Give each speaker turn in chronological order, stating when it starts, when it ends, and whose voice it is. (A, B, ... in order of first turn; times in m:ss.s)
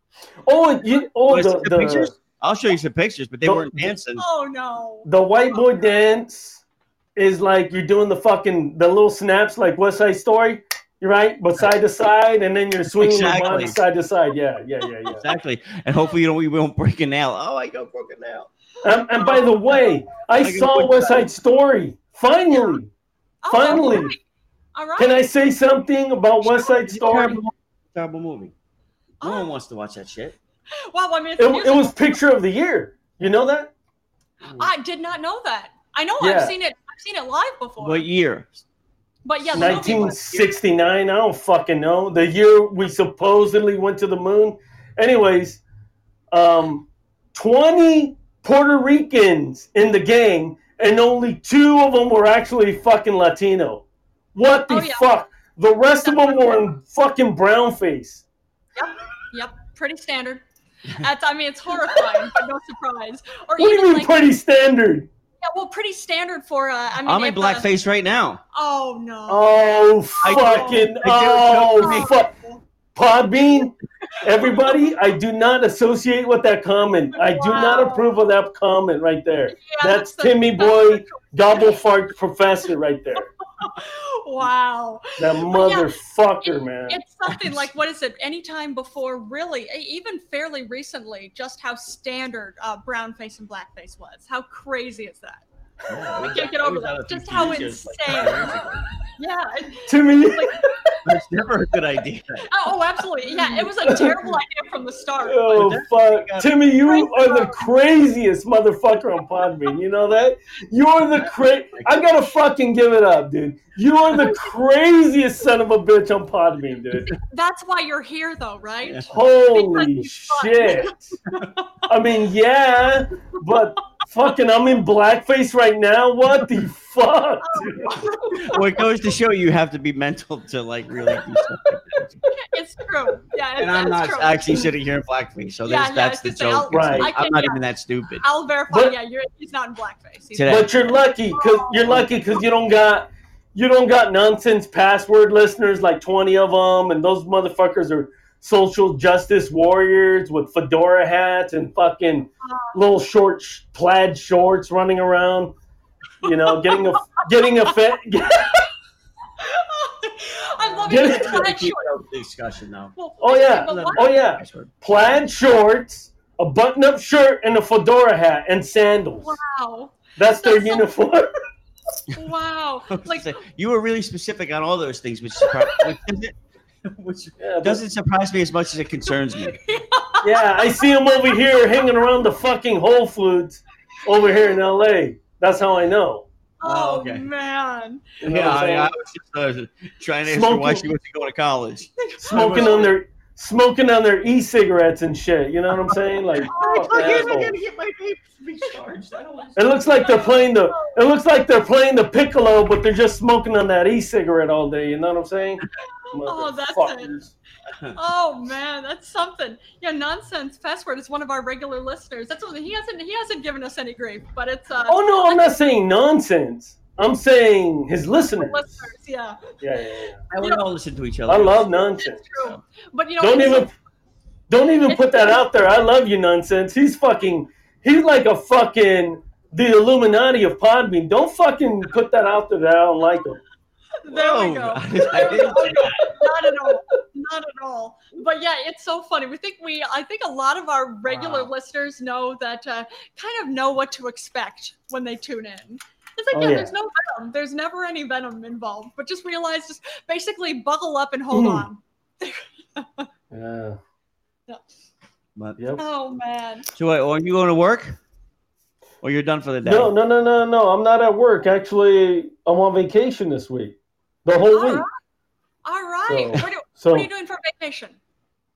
0:00.5-0:02.1 A
0:01.3-0:04.2 B
0:03.4-0:03.9 A
0:04.2-0:06.0 C
0:05.0-0:06.6 A
0:07.2-0:15.2 A
0:13.0-0:13.8 B
0:15.2-0:18.5 B
0:18.8-0:22.9 A
0:19.2-0:19.6 C
0:20.4-0:21.3 B
0:23.4-0:24.2 C
0:23.5-0:24.1 A
0:24.8-0:25.2 C
0:25.0-0:27.4 A
0:26.4-0:28.5 B
0:29.2-0:29.5 C
0:29.2-0:30.4 B
0:30.9-0:32.1 C
0:31.4-0:33.7 A
0:34.4-0:34.7 B
0:34.6-0:38.1 C
0:36.2-0:36.5 A
0:37.8-0:38.6 B
0:39.2-0:40.2 C
0:39.5-0:40.5 B
0:39.5-0:45.6 A
0:46.3-0:53.8 A
0:54.4-0:58.2 A
0:54.7-0:55.1 C
0:56.0-0:56.6 C
0:58.8-1:00.4 C
1:01.0-1:04.2 C
1:03.6-1:05.1 A
1:05.4-1:07.7 C
1:07.0-1:08.4 B
1:08.5-1:09.5 C
1:09.3-1:12.3 A
1:10.2-1:10.9 C
1:10.2-1:12.2 B
1:11.8-1:12.6 C
1:13.0-1:23.3 A
1:14.2-1:14.8 C
1:17.2-1:18.2 C
1:19.5-1:21.8 C
1:23.6-1:25.9 C
1:25.2-1:27.0 A
1:26.4-1:35.4 C
1:35.9-1:38.8 B
1:36.2-1:38.5 C
1:39.2-1:41.0 C
1:39.9-1:40.9 A
1:41.0-1:42.5 B
1:42.5-1:45.7 C
1:43.8-1:44.3 A
1:45.2-1:57.1 A
1:45.5-1:46.5 B
1:46.8-1:47.7 C
1:51.3-1:51.9 B
1:57.1-2:01.7 C
1:58.8-1:59.1 B
1:59.1-2:01.1 A
2:01.9-2:08.0 A
2:07.4-2:08.7 C
2:08.3-2:12.2 B
2:12.3-2:14.7 C
2:13.6-2:18.2 B
2:15.7-2:17.6 C
2:16.7-2:17.1 A
2:18.2-2:22.1 C
2:18.7-2:19.0 A
2:20.4-2:20.7 B
2:20.5-2:35.5 A
2:32.4-2:32.8 C
2:36.2-2:38.7 A
2:36.2-2:36.9 C
2:39.4-2:41.9 C
2:40.7-2:43.0 B
2:40.9-2:41.4 A
2:43.0-2:44.2 C
2:43.2-2:49.4 A
2:43.6-2:44.7 B
2:49.2-2:50.9 C
2:50.2-2:51.3 A
2:52.2-2:53.4 C
2:52.9-2:59.6 B
2:55.5-2:55.8 C
2:57.4-2:57.8 A
2:59.6-3:00.9 C
3:00.2-3:06.3 A
3:04.1-3:04.6 C
3:06.6-3:08.1 C
3:06.6-3:07.3 B
3:08.2-3:08.9 A
3:08.2-3:13.0 B
3:10.3-3:10.9 A
3:12.0-3:12.9 C
3:12.2-3:17.5 A
3:15.9-3:20.1 B
3:16.5-3:17.4 C
3:19.6-3:27.3 A
3:20.0-3:21.0 C
3:26.1-3:27.2 C
3:27.7-3:28.0 B
3:28.0-3:35.6 C
3:34.9-3:38.9 A
3:38.3-3:39.6 C
3:39.6-3:40.2 A
3:40.3-3:41.8 B
3:41.3-3:42.2 A
3:42.0-3:43.7 C
3:42.4-3:42.6 B
3:43.2-3:43.7 A
3:44.5-3:53.4 A
3:44.9-3:45.4 C
3:54.0-4:13.1 C
3:54.1-3:56.1 B
4:01.1-4:01.5 B
4:06.3-4:06.7 A
4:11.3-4:11.7 A
4:13.3-4:13.8 A
4:15.4-4:15.6 B
4:15.6-4:15.8 A
4:15.8-4:16.7 C
4:16.8-4:18.0 B
4:19.0-4:19.9 B
4:19.6-4:24.8 A
4:24.4-4:24.9 C
4:25.6-4:28.0 C
4:26.1-4:27.1 A